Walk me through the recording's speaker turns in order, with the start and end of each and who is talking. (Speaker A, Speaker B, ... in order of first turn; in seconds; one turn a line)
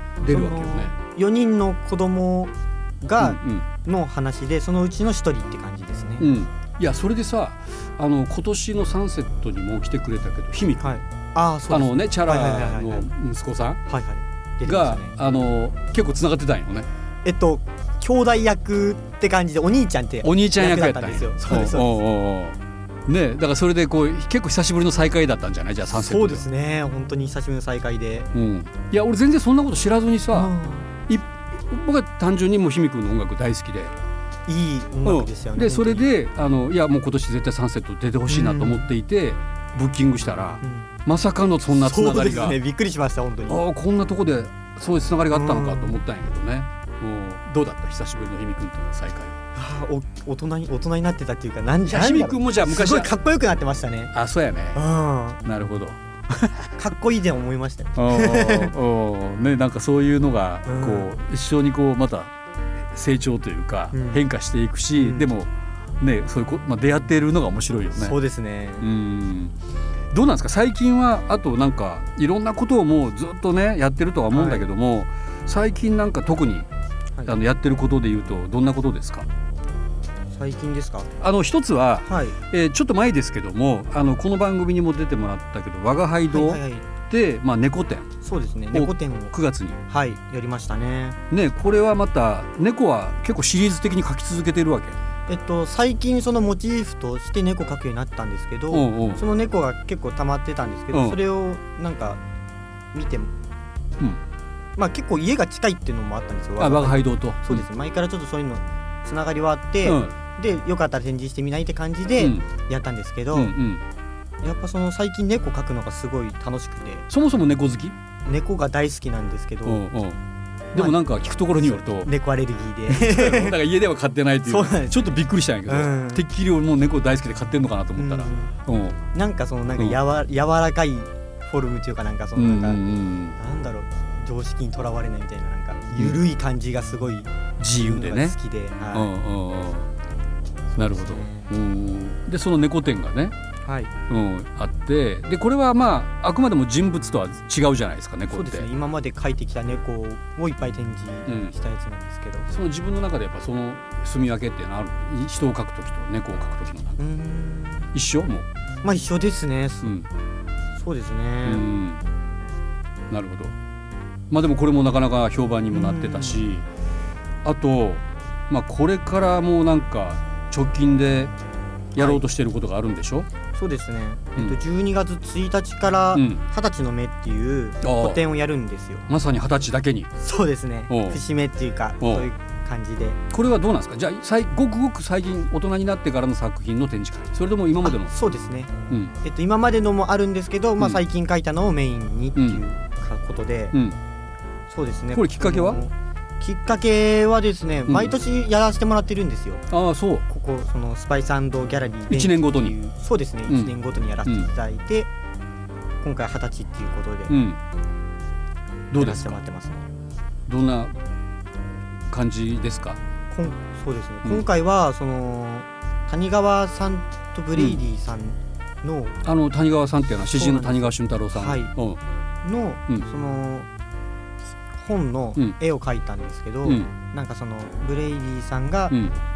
Speaker A: 0.2-0.9
Speaker B: 0.3-6.3
Speaker A: 3.2-3.7
Speaker A: 6.2-11.0
Speaker B: 10.8-13.1
Speaker A: 11.7-13.8
Speaker B: 13.9-15.1
Speaker A: 14.7-16.9
Speaker B: 17.2-21.9
Speaker A: 20.2-26.5
Speaker B: 25.9-28.3
Speaker A: 28.3-30.5
Speaker B: 30.3-30.9
Speaker A: 31.1-34.0
Speaker B: 34.5-36.1
Speaker A: 35.0-42.6
Speaker B: 38.3-38.9
Speaker B: 40.6-40.9
Speaker B: 41.7-43.6
Speaker A: 43.5-49.4
Speaker B: 45.3-46.0
Speaker B: 49.5-54.1
Speaker A: 51.9-53.1
Speaker A: 54.1-54.8
Speaker B: 54.8-55.4
Speaker A: 55.4-56.7
Speaker B: 56.8-58.7
Speaker A: 58.0-62.3
Speaker B: 60.6-61.1
Speaker A: 62.9-68.2
Speaker B: 63.9-64.2
Speaker B: 65.0-65.3
Speaker B: 68.0-68.9
Speaker A: 68.8-69.6
Speaker A: 70.1-76.7
Speaker B: 74.3-74.7
Speaker A: 77.2-79.3
Speaker B: 80.3-81.1
Speaker A: 81.2-88.1
Speaker B: 82.0-82.4
Speaker B: 86.3-86.9
Speaker B: 88.2-89.3
Speaker A: 88.7-89.8
Speaker B: 89.9-91.2
Speaker A: 91.3-95.0
Speaker B: 95.3-102.2
Speaker A: 98.7-99.2
Speaker A: 100.9-101.2
Speaker B: 102.9-103.3
Speaker B: 104.8-113.5
Speaker A: 106.6-107.7
Speaker A: 109.8-110.2
Speaker A: 112.2-112.5
Speaker A: 113.3-113.8
Speaker B: 114.4-117.1
Speaker A: 117.1-118.0
Speaker B: 118.2-119.8
Speaker A: 119.7-120.2
Speaker A: 120.7-122.1
Speaker B: 121.5-123.6
Speaker A: 122.9-129.0
Speaker B: 124.5-126.2
Speaker B: 128.0-128.5
Speaker B: 129.1-132.8
Speaker A: 132.4-133.4
Speaker B: 133.4-139.1
Speaker A: 136.0-136.2
Speaker A: 137.6-138.4
Speaker A: 138.9-139.9
Speaker B: 140.7-141.5
Speaker A: 140.8-143.4
Speaker B: 143.6-143.9
Speaker A: 144.1-148.7
Speaker B: 148.3-152.5
Speaker A: 151.3-151.6
Speaker A: 152.5-157.0
Speaker B: 157.0-157.9
Speaker A: 157.9-158.5
Speaker B: 158.8-160.0
Speaker A: 159.8-160.1
Speaker B: 160.8-161.7
Speaker A: 161.4-162.0
Speaker A: 163.1-163.6
Speaker A: 164.3-166.7
Speaker B: 165.7-166.4
Speaker A: 167.4-171.3
Speaker A: 171.9-173.3
Speaker B: 172.0-172.2
Speaker B: 173.5-179.1
Speaker A: 176.1-176.4
Speaker A: 177.8-178.2
Speaker A: 179.1-180.1
Speaker B: 180.2-183.2
Speaker A: 180.9-181.2
Speaker A: 182.0-182.3
Speaker A: 183.3-188.1
Speaker B: 187.8-193.8
Speaker A: 188.9-189.2
Speaker A: 192.4-192.6
Speaker A: 193.7-194.0
Speaker B: 194.7-199.6
Speaker A: 195.1-195.8
Speaker A: 197.9-198.1
Speaker A: 199.7-200.3
Speaker B: 200.3-205.1
Speaker A: 202.1-202.8
Speaker A: 203.5-204.5
Speaker B: 206.0-207.4
Speaker A: 207.3-207.6
Speaker A: 208.9-209.4
Speaker B: 209.0-209.9
Speaker A: 210.5-210.9
Speaker A: 212.1-213.0
Speaker B: 213.3-219.2
Speaker A: 217.6-217.8
Speaker A: 219.2-222.0
Speaker B: 220.2-221.7
Speaker B: 222.4-223.7
Speaker B: 224.8-229.0
Speaker A: 226.6-226.9
Speaker A: 228.9-229.2